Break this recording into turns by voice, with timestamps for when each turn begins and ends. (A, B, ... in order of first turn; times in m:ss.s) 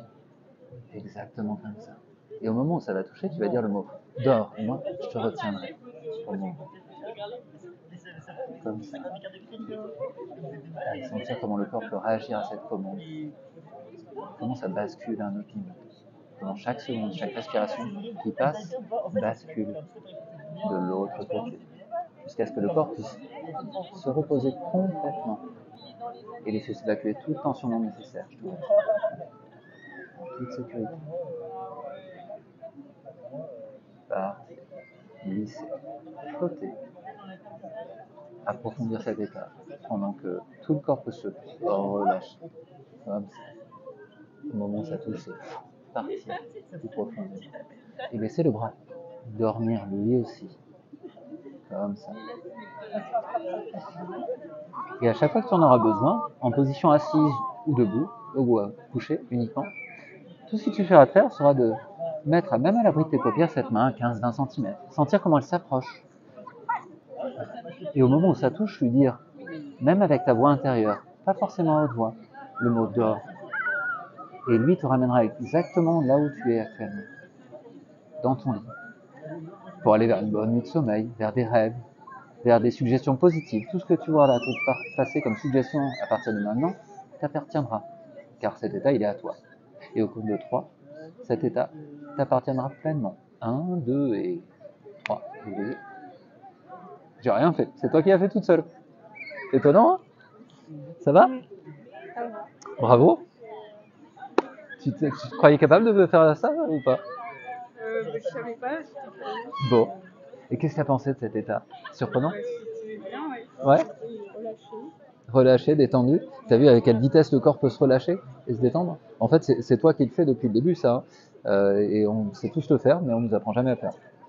0:00.9-0:06.7 A
0:08.4-0:09.2 A
0:10.8-0:13.1 A
0:14.4-0:19.8 A
0:20.6-0:21.7 A
0:22.2-0:23.3 A
0:23.8-0:25.4 A
0:26.4-0:28.7 A
0:30.2-0:31.0 A
0:34.1-0:34.6 A
0:35.2-0:36.8 A
0:38.4-0:42.4 A
0:43.0-0:43.4 A
0:44.5-0:47.5 A
0:48.1-0:50.6 A
0:51.6-0:52.2 A
0:55.0-0:59.7 A
1:00.5-1:06.0 A
1:07.4-1:09.2 A
1:09.8-1:13.3 A
1:14.5-1:17.1 A
1:18.2-1:18.7 A
1:19.8-1:21.8 A
1:22.4-1:27.9 A
1:28.4-1:29.4 A
1:29.9-1:30.7 A
1:31.2-1:35.8 A
1:37.2-1:38.7 A
1:39.5-1:40.0 A
1:41.0-1:41.4 A
1:42.1-1:42.5 B
1:42.8-1:43.2 A
1:44.8-1:47.0 A
1:47.8-1:49.6 B
1:49.6-1:49.9 A
1:50.5-1:52.4 A
1:52.3-1:54.9 B
1:53.6-1:53.9 A
1:55.3-2:04.0 A